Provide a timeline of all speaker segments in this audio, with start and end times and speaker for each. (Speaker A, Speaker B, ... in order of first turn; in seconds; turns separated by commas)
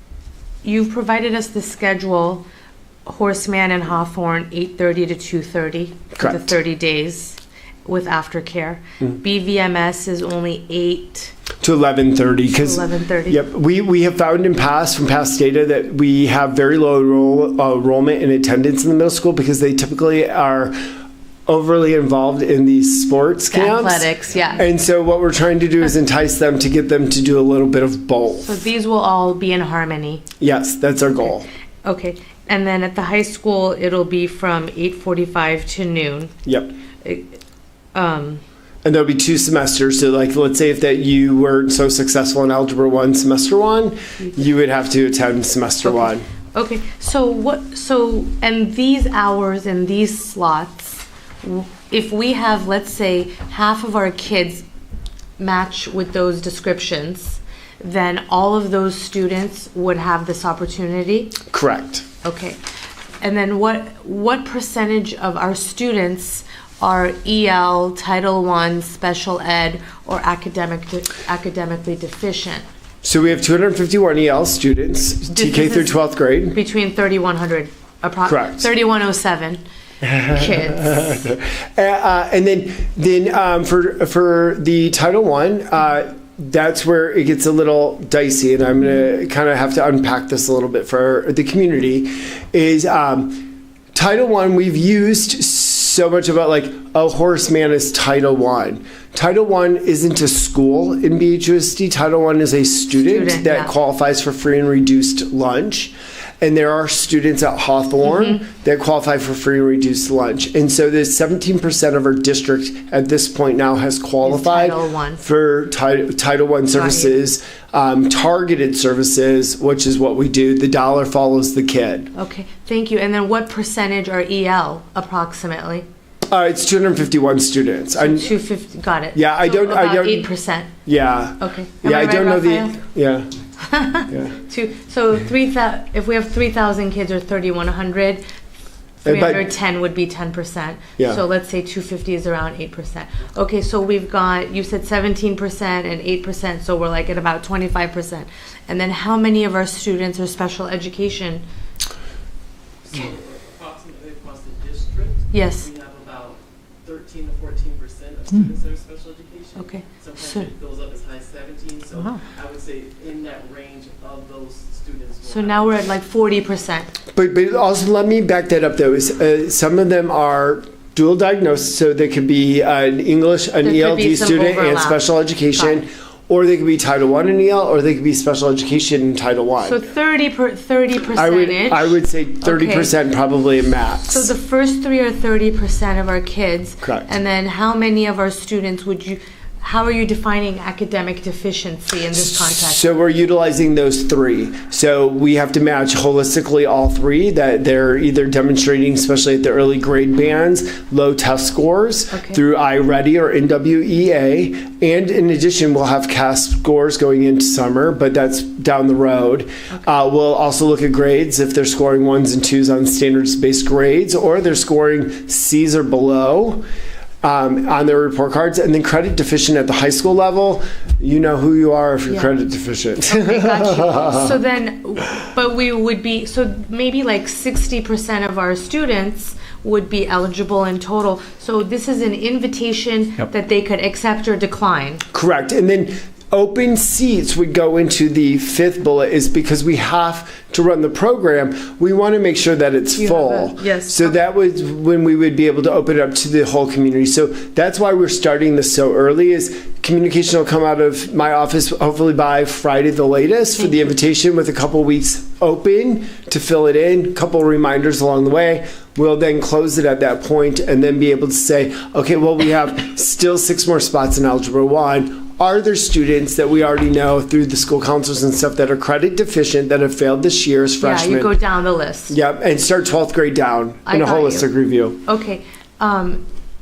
Speaker A: 0.6-2.5, Speaker A: 3.1-11.4, Speaker B: 6.2-6.5, Speaker B: 11.6-20.9, Speaker A: 12.6-13.4, Speaker B: 21.5-28.6, Speaker A: 23.5-24.7, Speaker A: 28.4-30.2, Speaker B: 30.4-31.5, Speaker A: 31.8-36.3, Speaker B: 36.5-36.7, Speaker A: 37.0-37.4, Speaker A: 38.0-38.4, Speaker B: 38.8-46.2, Speaker A: 45.8-54.7, Speaker A: 55.4-61.4, Speaker B: 61.5-62.0, Speaker A: 62.2-62.6, Speaker A: 63.2-72.7, Speaker B: 73.0-76.6, Speaker A: 75.3-76.0, Speaker A: 76.5-79.6, Speaker B: 78.3-78.7, Speaker B: 80.0-122.1, Speaker A: 80.2-81.3, Speaker A: 102.9-103.7, Speaker A: 108.0-108.4, Speaker A: 114.2-115.2, Speaker A: 116.7-117.2, Speaker A: 122.2-125.9, Speaker B: 126.3-128.4, Speaker A: 128.0-130.7, Speaker B: 129.1-130.3, Speaker B: 130.8-133.3, Speaker A: 131.4-132.8, Speaker A: 133.6-138.2, Speaker B: 134.1-134.4, Speaker A: 139.0-151.4, Speaker B: 139.1-139.5, Speaker C: 152.8-165.9, Speaker A: 155.3-155.7, Speaker A: 159.6-160.5, Speaker A: 165.3-166.9, Speaker B: 167.1-179.8, Speaker A: 173.6-175.0, Speaker A: 175.6-175.8, Speaker A: 179.6-182.9, Speaker B: 181.1-184.3, Speaker A: 184.1-192.9, Speaker B: 186.8-187.1, Speaker B: 192.2-216.7, Speaker A: 202.1-202.4, Speaker B: 217.2-224.3, Speaker A: 222.1-222.3, Speaker A: 223.1-235.0, Speaker B: 235.1-271.4, Speaker A: 242.9-244.2, Speaker A: 270.8-272.1, Speaker B: 272.1-275.0, Speaker A: 273.9-274.5, Speaker A: 275.0-276.2